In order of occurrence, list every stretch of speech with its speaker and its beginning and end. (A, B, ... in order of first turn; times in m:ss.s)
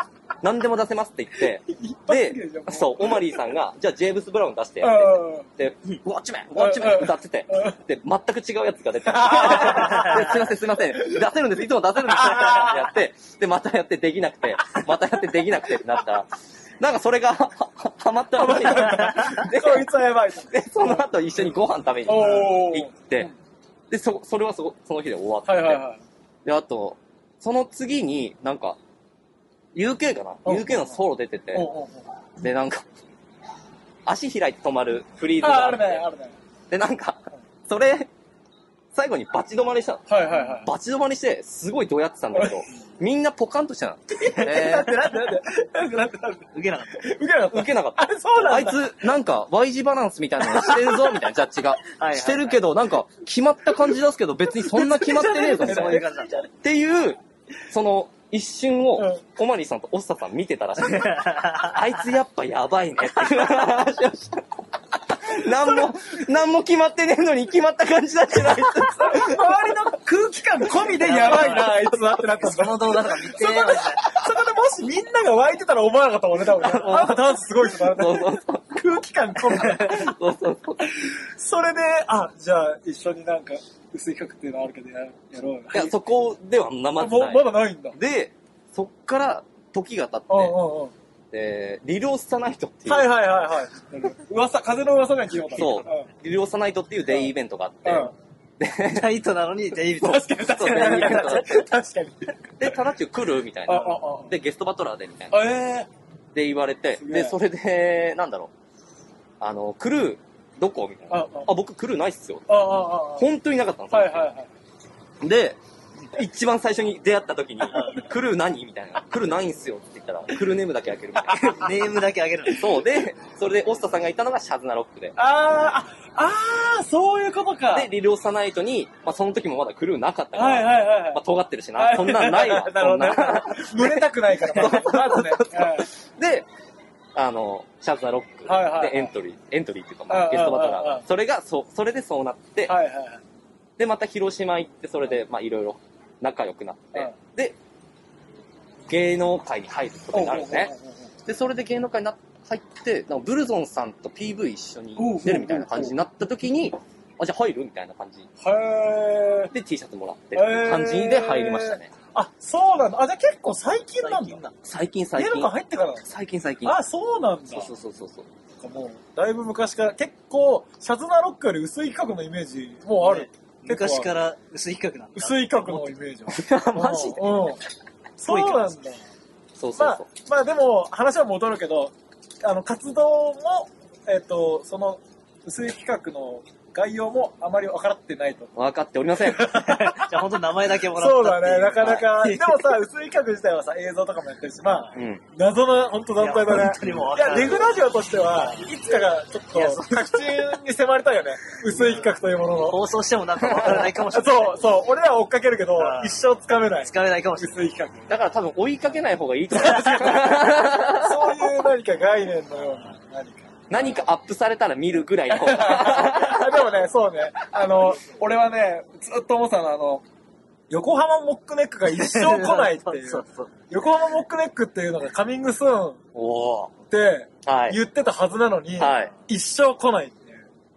0:00.4-0:19.9 A
0:01.7-0:03.5 B
0:04.8-0:05.5 B
0:06.5-0:07.8 B
0:09.1-0:11.2 B
0:12.0-0:12.9 B
0:18.4-0:21.0 B
0:20.5-0:23.3 A
0:22.0-0:23.3 B
0:23.9-0:25.8 A
0:25.4-0:26.0 B
0:26.4-0:28.8 A
0:29.7-0:31.7 A
0:30.4-0:31.0 B
0:31.5-0:32.1 B
0:32.4-0:32.8 A
0:34.0-0:36.0 A
0:35.4-0:36.4 B
0:36.7-0:38.1 A
0:38.9-0:45.0 A
0:40.1-0:40.7 B
0:42.3-0:42.6 B
0:44.2-0:49.0 B
0:46.5-0:47.1 C
0:47.5-1:09.6 A
0:50.4-0:51.2 B
0:51.9-0:52.6 C
0:54.6-0:56.4 B
0:55.3-0:56.4 C
1:00.8-1:01.8 C
1:08.8-1:20.2 B
1:11.0-1:14.0 C
1:16.6-1:18.8 A
1:19.4-1:21.0 A
1:20.8-1:25.9 B
1:25.7-1:30.6 A
1:27.0-1:28.0 B
1:30.3-1:30.9 B
1:31.3-1:33.1 A
1:32.9-1:36.1 B
1:35.5-1:39.1 A
1:35.6-1:35.8 C
1:37.8-1:38.1 B
1:38.8-1:41.3 C
1:40.0-1:42.8 B
1:40.5-1:41.7 A
1:42.6-1:45.5 A
1:43.7-1:44.3 B
1:45.3-1:45.9 B
1:46.3-1:48.5 A
1:47.0-1:47.4 B
1:49.4-1:54.3 A
1:51.1-1:51.5 B
1:52.5-1:53.3 B
1:53.9-1:54.5 B
1:55.2-1:55.6 A
1:56.1-2:01.7 A
2:01.2-2:01.6 B
2:01.4-2:02.8 C
2:02.5-2:05.2 A
2:05.2-2:07.9 B
2:07.7-2:16.5 A
2:10.3-2:11.2 B
2:11.8-2:15.9 B
2:17.1-2:22.8 A
2:18.4-2:19.1 B
2:20.1-2:21.0 B
2:22.6-2:23.2 B
2:23.8-2:27.6 A
2:28.9-2:30.7 A
2:30.1-2:31.1 B
2:31.2-2:38.3 A
2:35.0-2:36.0 B
2:38.4-2:39.5 B
2:39.5-2:41.9 A
2:40.3-2:44.4 B
2:44.0-2:44.6 C
2:44.6-2:45.5 A
2:45.2-2:46.1 B
2:46.0-2:46.8 A
2:46.6-2:47.7 B
2:47.5-2:48.3 A
2:48.6-2:54.1 B
2:53.0-2:55.9 C
2:55.2-2:57.6 B
2:56.3-2:57.5 A
2:58.2-2:59.0 B
2:58.2-2:58.7 C
2:59.6-3:00.0 A
2:59.8-3:08.5 B
3:08.6-3:09.6 A
3:09.2-3:10.2 B
3:09.5-3:12.8 C
3:10.9-3:22.8 B
3:14.9-3:15.2 A
3:16.2-3:17.8 C
3:19.5-3:20.5 C
3:21.7-3:24.8 C
3:23.5-3:28.1 B
3:25.7-3:26.2 C
3:26.8-3:27.7 C
3:28.1-3:31.5 A
3:29.5-3:34.0 B
3:33.7-3:36.7 A
3:35.3-3:40.0 B
3:40.7-3:46.0 B
3:41.9-3:43.5 C
3:46.1-3:46.7 A
3:46.9-3:50.4 B
3:47.4-3:47.8 A
3:48.8-3:49.1 A